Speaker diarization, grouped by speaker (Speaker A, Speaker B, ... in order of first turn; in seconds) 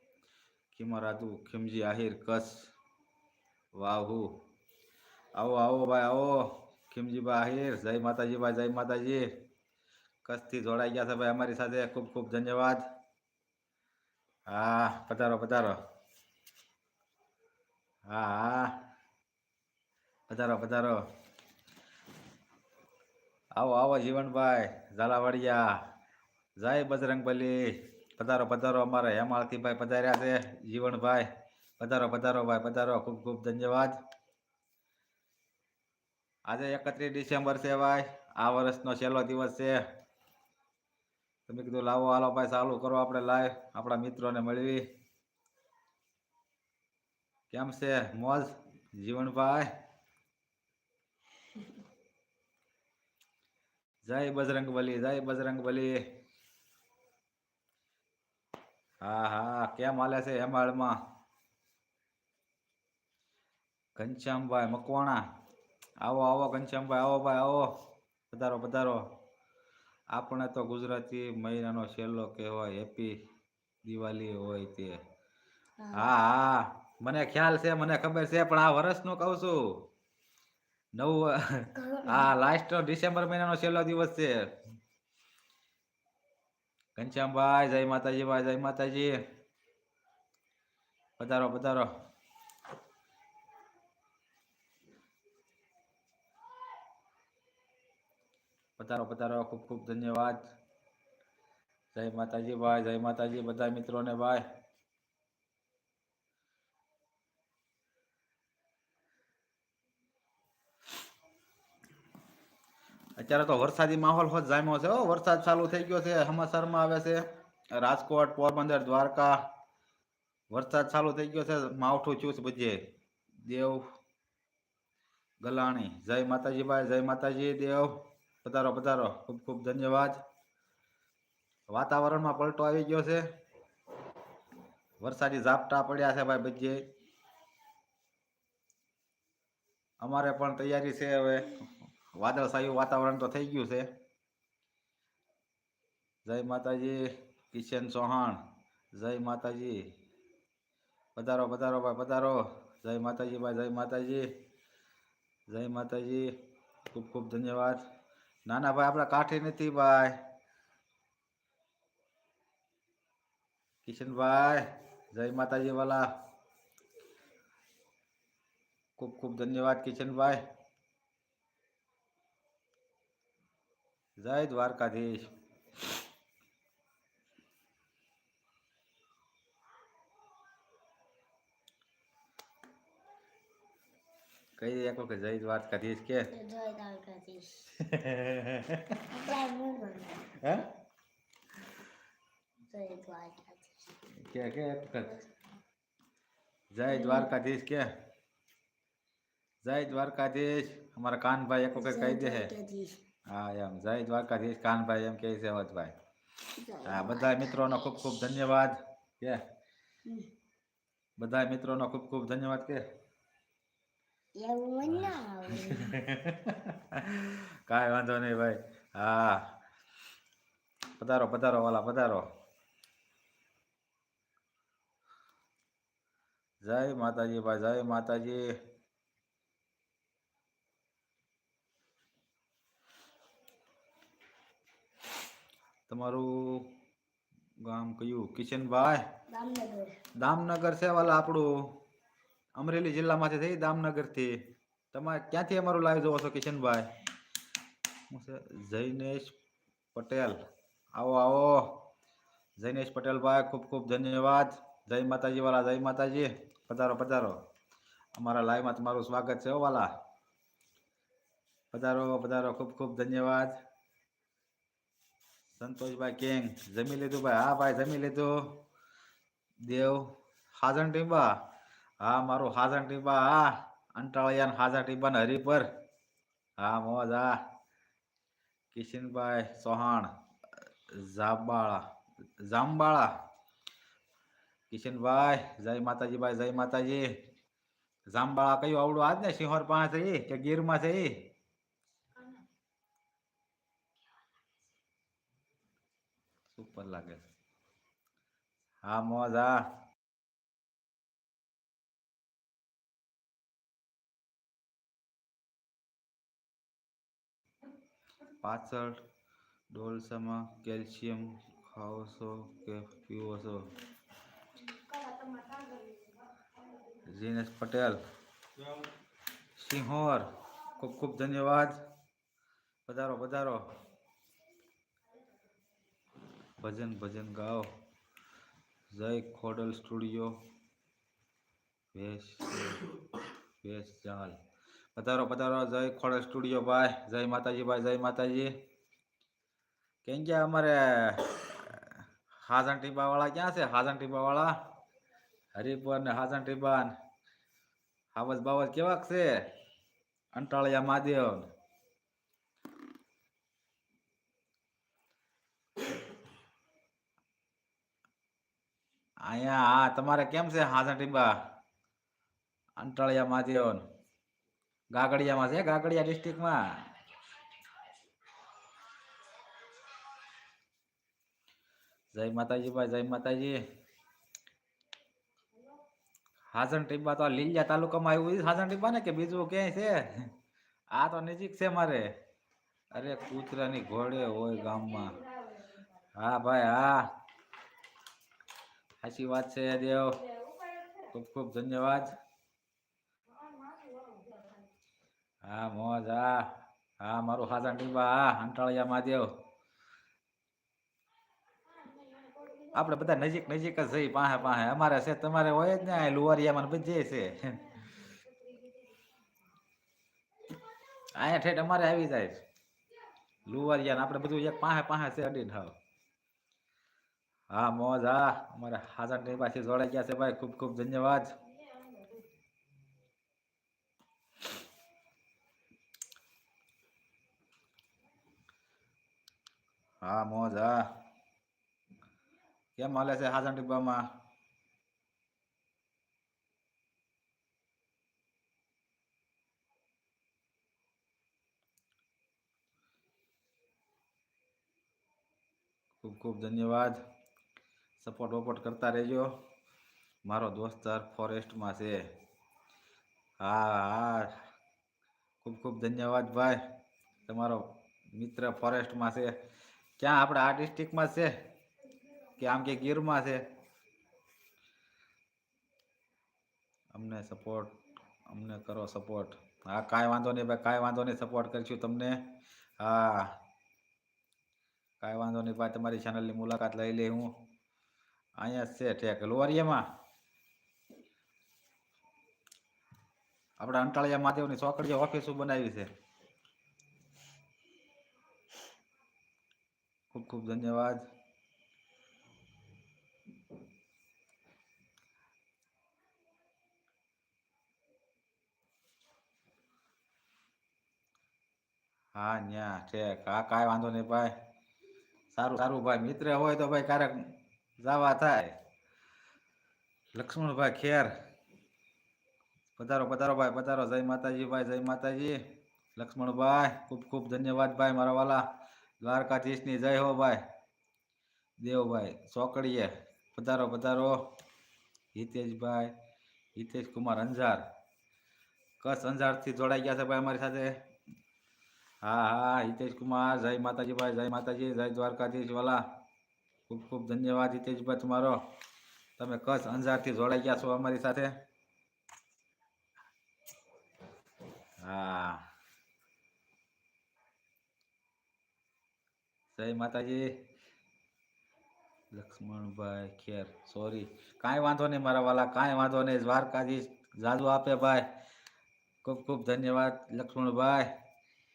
Speaker A: 0.7-2.7, 3.7-4.4, 5.3-9.3, 10.2-12.8, 14.5-15.8, 18.1-18.8, 20.3-21.0, 23.6-25.8, 26.6-34.0, 36.5-39.8, 41.5-44.8, 47.5-49.7, 54.0-56.0, 59.0-61.0, 64.0-65.2, 66.0-67.7, 68.3-69.0, 70.1-73.2, 73.8-75.0, 75.9-79.8, 80.9-84.6, 87.0-89.2, 91.2-91.9, 98.8-100.5, 101.9-104.4, 113.2-117.2, 117.8-119.4, 120.5-122.8, 123.4-123.8, 125.4-130.2, 131.7-133.2, 135.0-136.8, 140.0-143.9, 146.2-148.4, 148.9-149.9, 151.2-154.3, 155.5-156.3, 156.9-157.8, 158.4-160.2, 163.8-166.1, 169.0-170.4, 174.2-175.3, 184.6-186.3, 187.8-189.0, 190.4-190.7, 194.1-195.1, 196.7-197.9, 199.6-202.5, 203.3-205.9, 206.8-209.4, 211.2-212.8, 214.8-219.5, 221.0-222.3, 226.6-228.6, 235.9-236.7, 237.6-239.0, 240.2-241.8, 242.6-246.9, 248.1-249.3, 249.9-250.4, 250.9-251.8, 252.6-257.4, 258.1-259.9, 261.7-263.6, 265.6-268.6, 269.6-271.4, 272.0-275.7, 276.6-277.4, 278.7-280.1, 280.9-281.8, 282.4-283.1, 284.7-287.1, 288.1-291.2, 296.5-297.2, 298.8-299.7, 308.4-309.0, 309.7-313.7, 317.0-318.0, 319.6-321.8, 322.9-323.7, 326.6-327.7, 328.9-330.4, 331.9-332.8, 333.6-334.4, 334.9-338.5, 340.0-344.6, 345.5-346.9, 348.1-349.4, 350.3-351.5, 359.2-361.4, 362.8-363.8, 364.9-366.9, 372.1-373.6, 376.5-380.3, 380.9-382.1, 382.9-385.2, 386.1-387.1, 389.0-390.2, 391.1-392.1, 395.4-399.3, 402.6-407.7, 411.1-412.4, 413.4-415.8, 417.5-421.3, 430.0-430.9, 432.8-434.1, 446.0-447.0, 448.0-449.3, 450.2-452.0, 453.4-454.4, 455.4-456.6, 457.3-459.3, 460.0-461.3, 462.4-463.4, 466.9-467.7, 468.2-473.3, 475.0-477.3, 478.4-479.8, 483.6-485.9, 490.1-491.0, 502.1-504.3, 505.3-508.5, 510.1-511.1, 512.8-515.4, 515.9-518.4, 519.0-520.4, 521.6-524.2, 525.1-525.9, 526.5-527.7, 528.8-530.8, 532.0-535.8, 536.7-538.4, 539.2-541.3, 544.8-545.5, 549.5-550.4, 552.1-558.1, 559.0-560.9
Speaker B: 75.8-76.2, 81.8-82.3, 186.3-187.7, 189.1-190.3, 192.7-193.9, 196.9-197.3, 201.7-203.0, 206.6-207.8, 214.4-216.0, 239.3-239.9